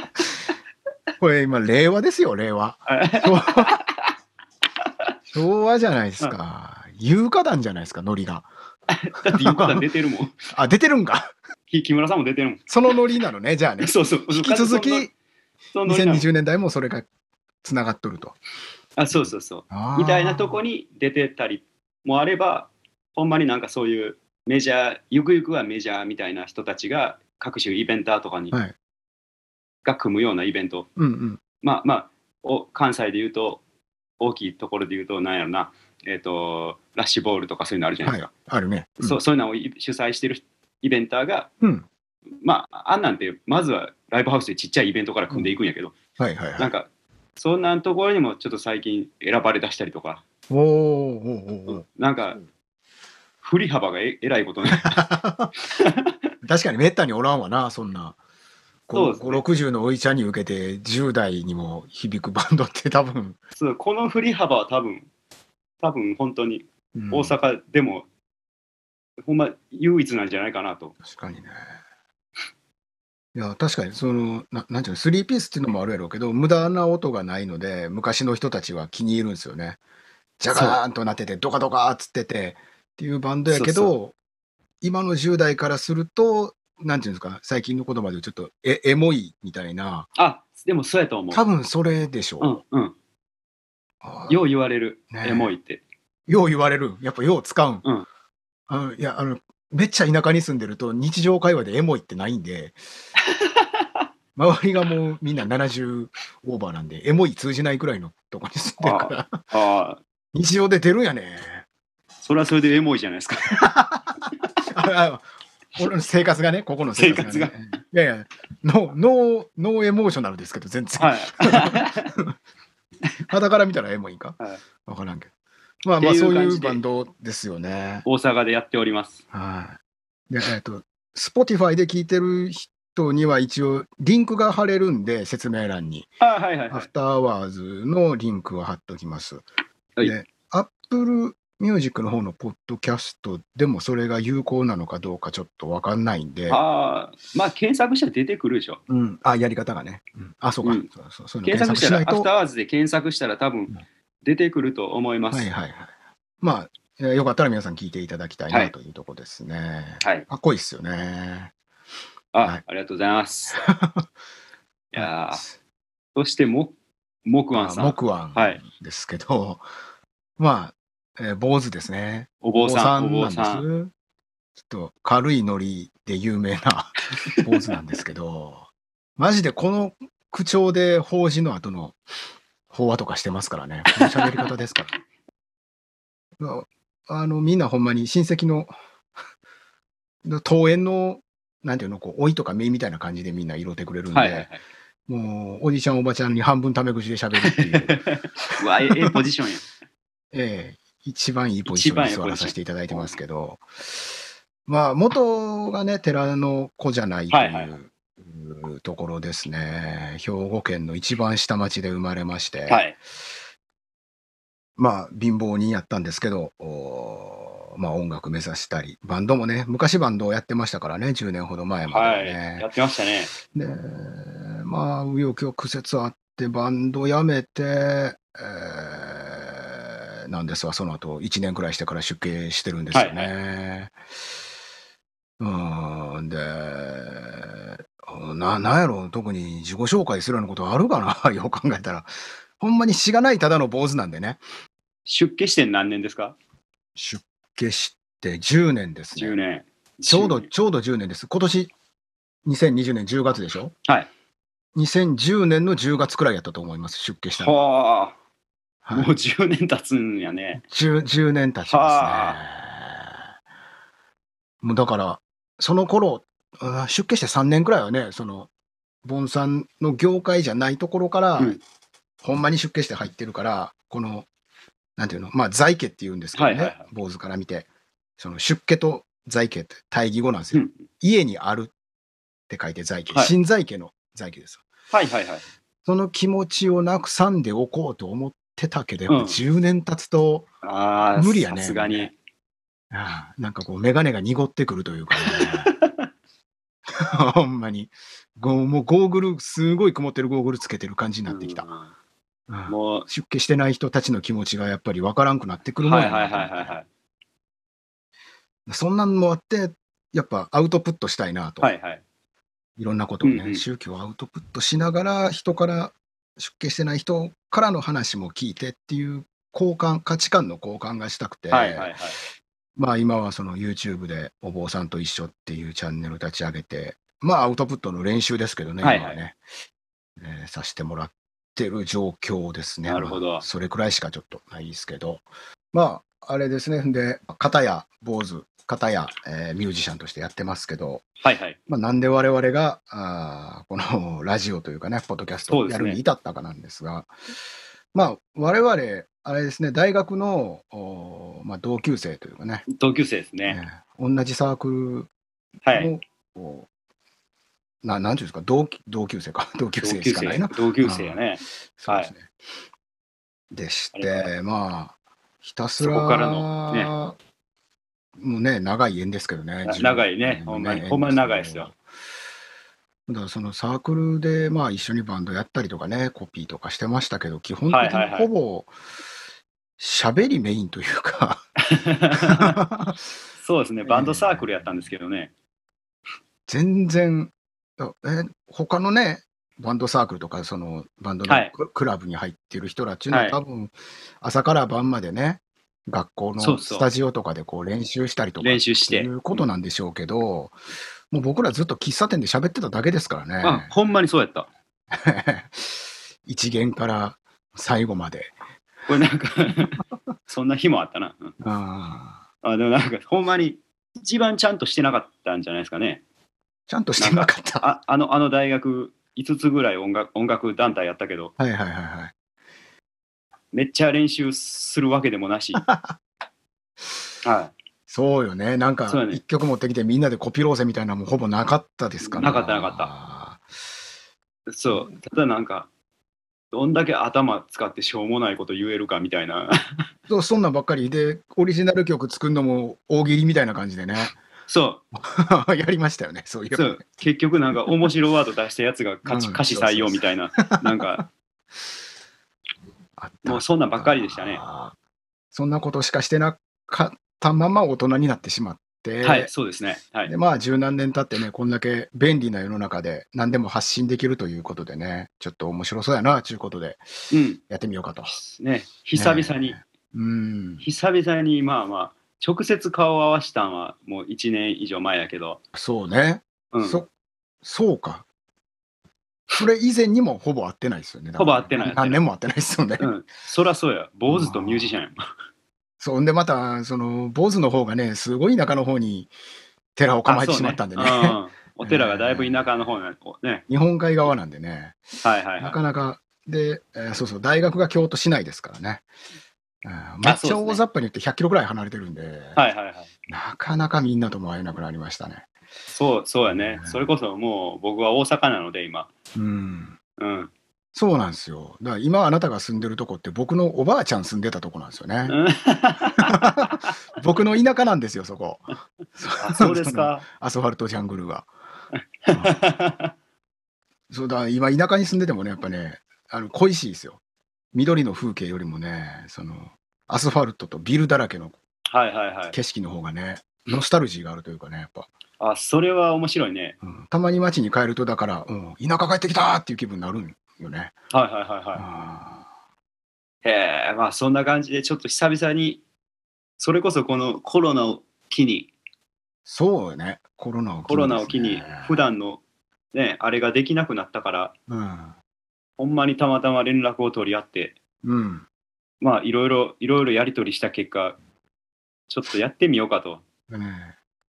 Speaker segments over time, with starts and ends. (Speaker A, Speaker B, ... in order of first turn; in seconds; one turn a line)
Speaker A: 1.2-3.8
Speaker B: 2.9-4.1
Speaker A: 5.3-8.5
Speaker B: 8.9-10.3
Speaker A: 9.3-9.9
Speaker A: 10.5-11.3
Speaker B: 11.7-12.9
Speaker A: 12.7-15.1
Speaker B: 13.8-15.1
Speaker B: 15.7-16.3
Speaker A: 15.8-17.1
Speaker A: 17.6-18.4
Speaker B: 19.0-28.6
Speaker A: 19.7-20.6
Speaker B: 29.8-30.9
Speaker A: 31.0-31.4
Speaker B: 31.6-33.6
Speaker B: 34.2-38.2
Speaker A: 38.0-39.2
Speaker B: 39.0-41.5
Speaker A: 41.6-41.9
Speaker B: 42.4-45.9
Speaker A: 46.2-46.7
Speaker B: 46.6-50.2
Speaker A: 50.5-51.8
Speaker B: 51.7-52.4
Speaker B: 53.4-55.0
Speaker A: 54.7-55.5
Speaker B: 55.7-56.1
Speaker A: 56.4-58.2
Speaker A: 58.9-63.4
Speaker B: 58.9-59.4
Speaker B: 63.5-65.1
Speaker B: 65.8-68.1
Speaker A: 67.0-67.3
Speaker B: 69.2-71.0
Speaker A: 71.0-71.7
Speaker A: 73.3-79.8
Speaker A: 80.4-84.2
Speaker B: 80.5-80.8
Speaker B: 83.5-83.9
Speaker A: 84.8-90.1
Speaker B: 90.2-91.4
Speaker A: 91.3-92.6
Speaker B: 92.4-92.9
Speaker A: 94.0-94.5
Speaker B: 94.3-95.8
Speaker A: 95.1-95.5
Speaker A: 96.3-97.8
Speaker A: 98.7-102.8
Speaker B: 103.4-103.7
Speaker A: 104.4-109.4
Speaker B: 108.8-110.0
Speaker A: 110.3-111.7
Speaker B: 112.2-113.8
Speaker A: 113.6-113.9
Speaker A: 114.7-115.2
Speaker A: 115.8-122.3
Speaker B: 117.0-117.6
Speaker B: 121.0-122.1
Speaker A: 123.3-125.3
Speaker A: 125.8-128.1
Speaker B: 126.0-126.8
Speaker B: 128.1-129.2
Speaker A: 129.3-129.8
Speaker A: 130.3-136.1
Speaker B: 136.2-136.9
Speaker A: 136.7-139.5
Speaker A: 140.0-146.6
Speaker B: 146.5-148.8
Speaker A: 148.9-152.3
Speaker B: 150.6-150.9
Speaker B: 151.4-155.5
Speaker A: 155.3-155.9
Speaker A: 156.4-161.5
Speaker B: 158.5-158.7
Speaker B: 160.0-160.2
Speaker B: 162.3-163.6
Speaker A: 163.6-164.1
Speaker B: 164.9-165.4
Speaker A: 164.9-165.6
Speaker B: 166.2-168.6
Speaker A: 167.5-169.7
Speaker A: 170.4-173.9
Speaker B: 172.4-173.7
Speaker A: 174.7-182.0
Speaker B: 177.3-177.8
Speaker A: 182.7-184.9
Speaker B: 184.0-184.5
Speaker A: 186.4-188.7
Speaker A: 190.2-194.5
Speaker B: 194.1-194.6
Speaker A: 195.1-198.1
Speaker B: 197.4-199.7
Speaker A: 198.9-199.1
Speaker A: 200.3-212.9
Speaker B: 201.7-203.2
Speaker B: 207.3-207.7
Speaker B: 212.7-213.0
Speaker A: 214.8-222.7
Speaker B: 221.9-223.3
Speaker A: 223.5-233.9
Speaker B: 232.9-233.3
Speaker A: 235.4-244.4
Speaker B: 245.1-246.3
Speaker A: 246.9-249.4
Speaker B: 249.2-250.5
Speaker A: 250.1-251.7
Speaker A: 252.4-253.7
Speaker A: 254.8-257.6
Speaker B: 257.4-258.2
Speaker A: 258.8-259.1
Speaker B: 258.9-260.6
Speaker A: 260.6-263.2
Speaker B: 261.7-262.4
Speaker A: 264.6-268.5
Speaker A: 269.1-271.6
Speaker A: 272.2-274.3
Speaker A: 275.0-281.7
Speaker B: 276.3-276.9
Speaker B: 280.5-280.8
Speaker A: 282.5-284.6
Speaker B: 284.9-285.4
Speaker A: 285.9-290.5
Speaker B: 289.1-289.4
Speaker B: 290.6-292.1
Speaker A: 291.1-292.1
Speaker A: 292.9-295.7
Speaker B: 295.2-296.1
Speaker A: 296.9-301.7
Speaker B: 301.3-301.9
Speaker A: 302.5-306.8
Speaker B: 302.7-303.1
Speaker B: 305.8-306.9
Speaker A: 308.7-311.7
Speaker B: 311.6-312.0
Speaker A: 312.8-321.9
Speaker B: 313.2-313.6
Speaker B: 321.5-322.2
Speaker A: 322.8-329.4
Speaker B: 328.8-329.2
Speaker A: 330.2-341.1
Speaker B: 332.9-333.4
Speaker B: 341.2-341.6
Speaker A: 341.7-347.1
Speaker B: 345.5-346.0
Speaker A: 347.9-352.7
Speaker B: 352.7-353.6
Speaker A: 353.4-355.1
Speaker B: 355.6-355.9
Speaker A: 355.7-356.7
Speaker A: 357.8-361.2
Speaker B: 359.8-362.1
Speaker A: 361.8-362.3
Speaker A: 363.5-367.1
Speaker B: 363.9-364.3
Speaker B: 365.8-366.9
Speaker A: 368.2-371.8
Speaker B: 369.6-371.7
Speaker A: 373.1-378.7
Speaker B: 377.7-378.3
Speaker A: 379.8-381.5
Speaker B: 381.7-382.6
Speaker A: 382.2-383.1
Speaker B: 383.4-385.3
Speaker A: 383.8-384.9
Speaker A: 386.5-400.6
Speaker B: 393.1-393.4
Speaker B: 396.4-396.9
Speaker B: 398.4-399.5
Speaker A: 401.1-403.7
Speaker B: 403.4-404.5
Speaker A: 404.9-408.3
Speaker B: 408.9-411.3
Speaker A: 411.4-412.2
Speaker B: 412.4-416.0
Speaker A: 416.7-417.7
Speaker B: 417.0-421.3
Speaker A: 421.4-422.1
Speaker B: 423.5-425.7
Speaker A: 425.6-425.9
Speaker B: 427.2-427.5
Speaker A: 427.9-433.4
Speaker B: 428.9-429.2
Speaker B: 432.0-432.9
Speaker B: 434.5-435.7
Speaker B: 436.5-439.8
Speaker A: 440.1-444.2
Speaker B: 444.5-444.8
Speaker A: 444.9-446.8
Speaker B: 446.5-451.1
Speaker A: 449.1-450.7
Speaker A: 453.0-454.8
Speaker B: 453.2-454.4
Speaker A: 455.3-459.3
Speaker B: 459.0-460.1
Speaker A: 460.1-468.2
Speaker B: 467.1-467.4
Speaker B: 468.1-469.6
Speaker A: 468.9-470.7
Speaker B: 470.6-475.4
Speaker A: 475.5-476.9
Speaker B: 476.5-476.8
Speaker A: 477.4-478.1
Speaker A: 479.4-482.9
Speaker B: 481.2-482.0
Speaker B: 482.8-485.0
Speaker A: 484.1-484.7
Speaker A: 485.8-489.1
Speaker A: 489.8-492.7
Speaker B: 490.1-493.4
Speaker A: 493.5-494.8
Speaker B: 495.0-495.6
Speaker A: 495.4-498.9
Speaker A: 499.6-502.4
Speaker B: 500.0-500.6
Speaker B: 502.3-502.9
Speaker A: 503.1-505.3
Speaker B: 505.7-508.9
Speaker A: 506.3-506.9
Speaker A: 509.1-509.8
Speaker B: 510.0-510.3
Speaker A: 510.8-515.2
Speaker B: 515.1-516.7
Speaker A: 516.0-521.3
Speaker B: 519.2-520.0
Speaker B: 522.0-522.9
Speaker A: 522.1-522.4
Speaker A: 523.9-527.0
Speaker A: 527.5-531.4
Speaker B: 531.7-532.4
Speaker A: 532.3-534.9
Speaker B: 535.2-536.6
Speaker A: 536.6-540.7
Speaker B: 540.9-541.6
Speaker A: 541.5-542.2
Speaker B: 543.2-545.6
Speaker B: 546.4-548.5
Speaker A: 549.3-551.8
Speaker B: 550.7-552.2
Speaker B: 552.7-554.3
Speaker A: 554.5-554.9
Speaker B: 555.6-557.5
Speaker A: 557.8-558.3
Speaker B: 558.8-561.0
Speaker B: 561.9-563.0
Speaker A: 563.3-563.8